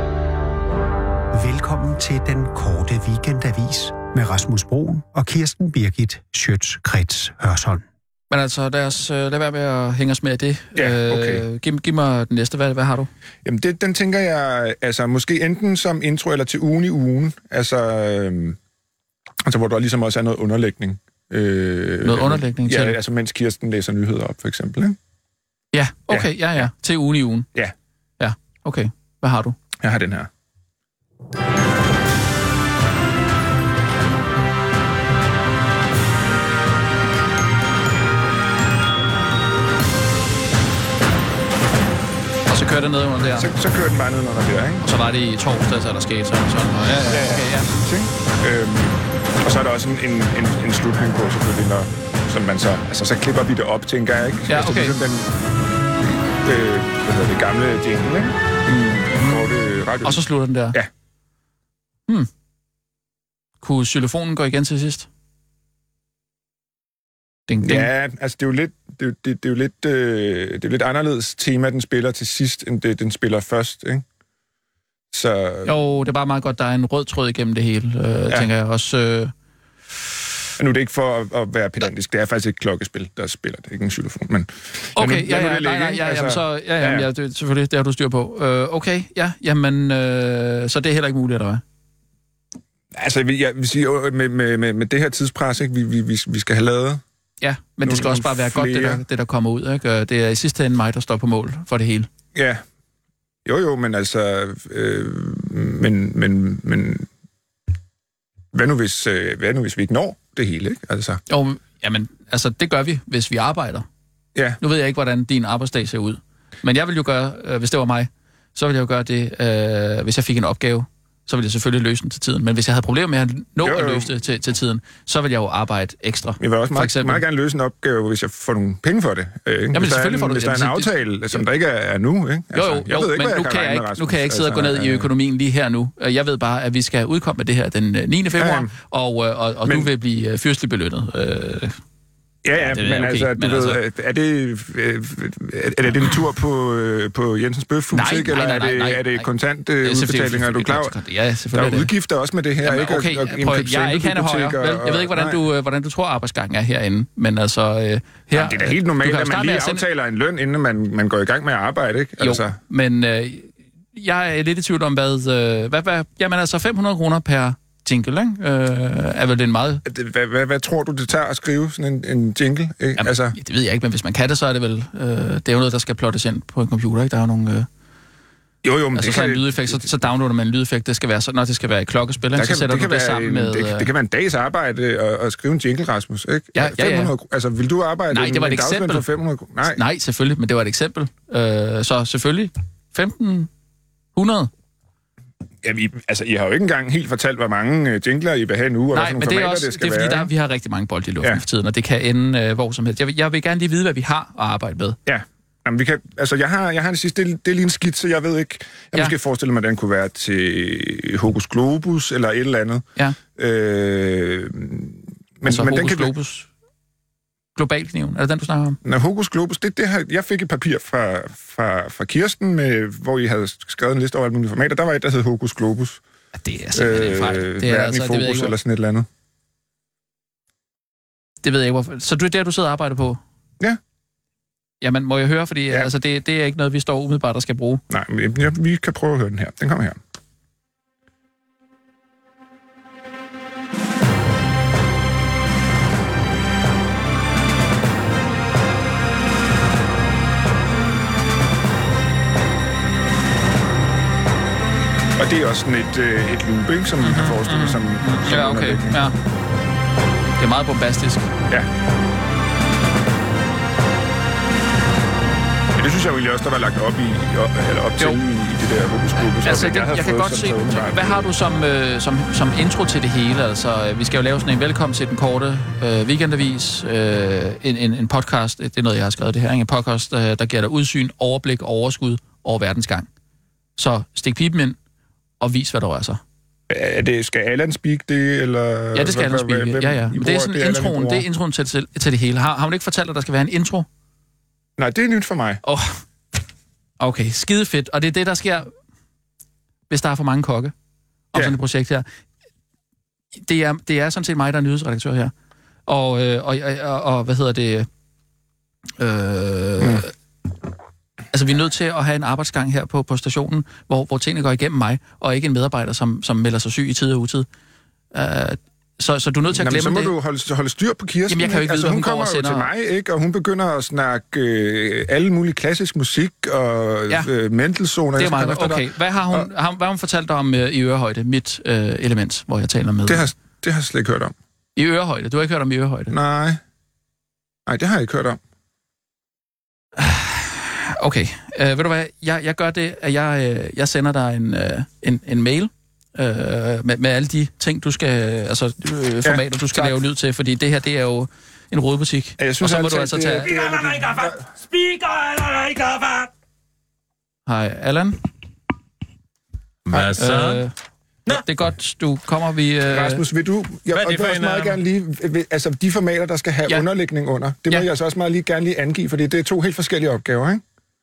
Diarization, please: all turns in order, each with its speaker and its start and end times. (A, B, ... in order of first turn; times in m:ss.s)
0:01.3-0:07.8 A
0:08.3-0:13.1 B
0:10.8-0:11.4 C
0:13.4-0:18.6 C
0:19.4-0:25.0 C
0:22.0-0:23.0 B
0:25.7-0:27.5 B
0:26.1-0:26.7 C
0:28.2-0:29.6 B
0:29.8-0:30.3 C
0:42.5-0:43.5 B
0:43.4-0:44.8 C
0:44.8-0:47.7 B
0:47.1-0:55.3 C
0:54.5-0:55.0 B
0:56.0-1:00.9 C
1:00.0-1:00.8 B
1:03.6-1:05.1 B
1:07.5-1:07.9 B
1:07.6-1:14.0 C
1:15.1-1:15.7 C
1:15.6-1:19.3 B
1:20.6-1:27.1 C
1:25.0-1:31.6 B
1:32.9-1:37.0 C
1:37.4-1:42.1 B
1:37.8-1:39.0 C
1:42.4-1:42.6 C
1:43.5-1:47.1 C
1:48.5-1:51.2 C
1:51.3-1:53.9 B
1:54.6-2:07.2 B
2:03.6-2:04.1 C
2:06.4-2:15.1 C
2:09.7-2:11.4 B
2:12.5-2:21.8 B
2:18.4-2:18.7 C
2:19.6-2:19.9 C
2:22.4-2:30.9 C
2:22.6-2:23.8 B
2:27.9-2:29.3 B
2:29.8-2:31.9 B
2:31.5-2:35.4 C
2:32.6-2:39.8 B
2:38.3-2:42.6 C
2:42.2-2:49.8 B
2:49.9-2:53.4 C
2:53.0-2:57.7 B
2:58.6-2:59.9 C
2:59.0-3:03.9 B
3:02.4-3:09.8 C
3:06.6-3:07.1 B
3:08.1-3:09.0 B
3:09.7-3:13.5 B
3:14.2-3:14.5 B
3:15.6-3:20.3 C
3:18.9-3:25.0 B
3:25.1-3:36.1 C
3:35.5-3:36.5 B
3:37.6-3:38.8 B
3:38.8-3:46.0 C
3:46.4-3:48.5 B
3:46.7-3:49.1 C
3:51.4-3:53.2 B
3:54.8-3:57.8 B
3:57.9-4:00.0 C
4:15.2-4:19.0 C
4:17.0-4:19.2 B
4:20.4-4:21.3 B
4:25.8-4:31.2 C
4:29.2-4:43.1 B
4:43.8-4:44.8 B
4:45.4-4:46.2 B
4:46.7-4:51.3 C
4:48.9-4:53.9 B
4:54.8-4:55.6 C
4:55.6-4:56.0 B
4:57.0-4:58.7 B
4:59.9-5:00.7 B
5:01.3-5:02.1 B
5:03.4-5:05.3 B
5:05.9-5:07.9 B
5:09.0-5:10.1 B
5:09.8-5:10.0 C
5:11.3-5:17.5 B
5:18.1-5:20.1 B
5:19.5-5:29.5 C
5:21.3-5:22.7 B
5:28.2-5:33.3 B
5:33.1-5:34.3 C
5:34.8-5:36.1 B
5:36.1-5:36.6 C
5:37.7-5:38.4 C
5:40.0-5:53.5 B
5:49.2-5:50.0 C
5:52.4-5:54.4 C
5:53.5-5:56.3 D
5:57.5-5:58.2 B
5:59.9-6:00.6 D
6:00.2-6:00.7 B
6:01.3-6:03.2 B
6:02.9-6:10.6 C
6:03.9-6:04.8 D